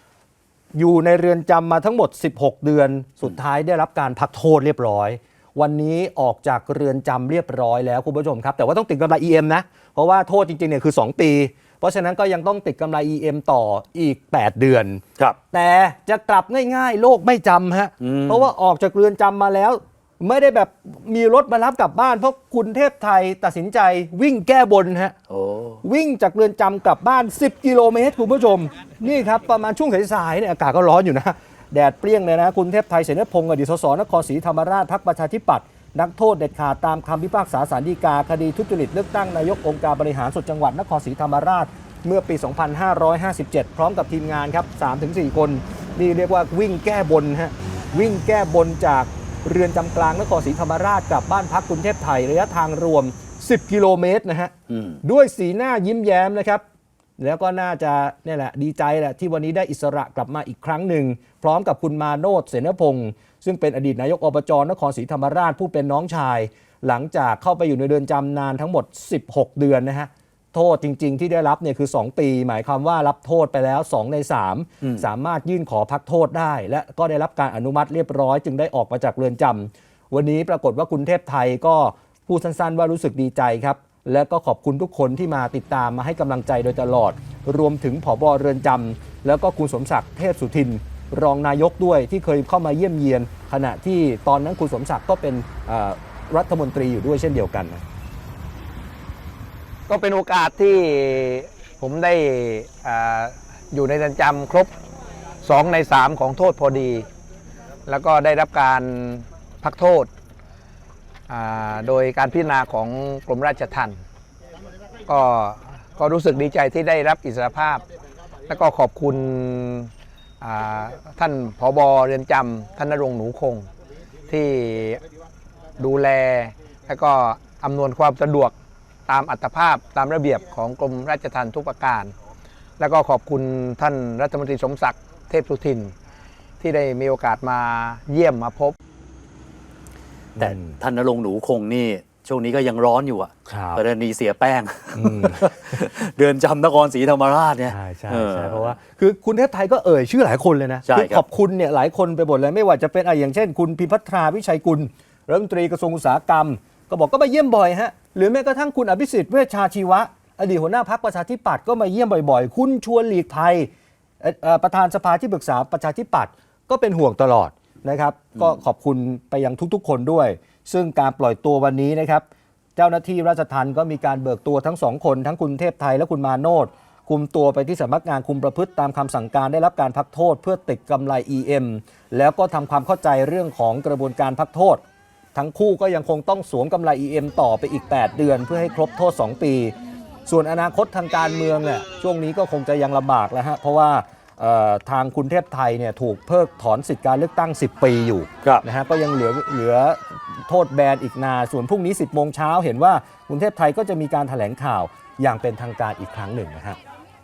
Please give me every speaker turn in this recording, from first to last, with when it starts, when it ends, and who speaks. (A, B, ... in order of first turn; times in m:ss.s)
0:00.7-0:25.2 A
0:18.0-0:18.5 B
0:25.3-0:25.8 B
0:25.8-0:56.6 A
0:57.2-1:37.8 A
1:39.9-1:44.7 C
1:45.4-1:47.1 C
1:47.9-1:50.1 C
1:51.3-1:54.0 C
1:55.1-1:57.8 C
1:58.5-1:59.9 C
2:00.4-2:03.7 C
2:04.3-2:05.0 C
2:05.8-2:08.5 C
2:09.1-2:12.2 C
2:12.8-2:15.9 C
2:16.6-2:18.8 C
2:20.4-2:28.8 B
2:20.4-2:20.8 A
2:23.5-2:23.8 A
2:25.0-2:25.5 A
2:27.7-2:43.7 A
2:30.9-2:31.2 B
2:44.2-2:52.2 A
2:52.8-3:04.8 A
3:05.4-3:09.7 A
3:10.3-3:26.8 A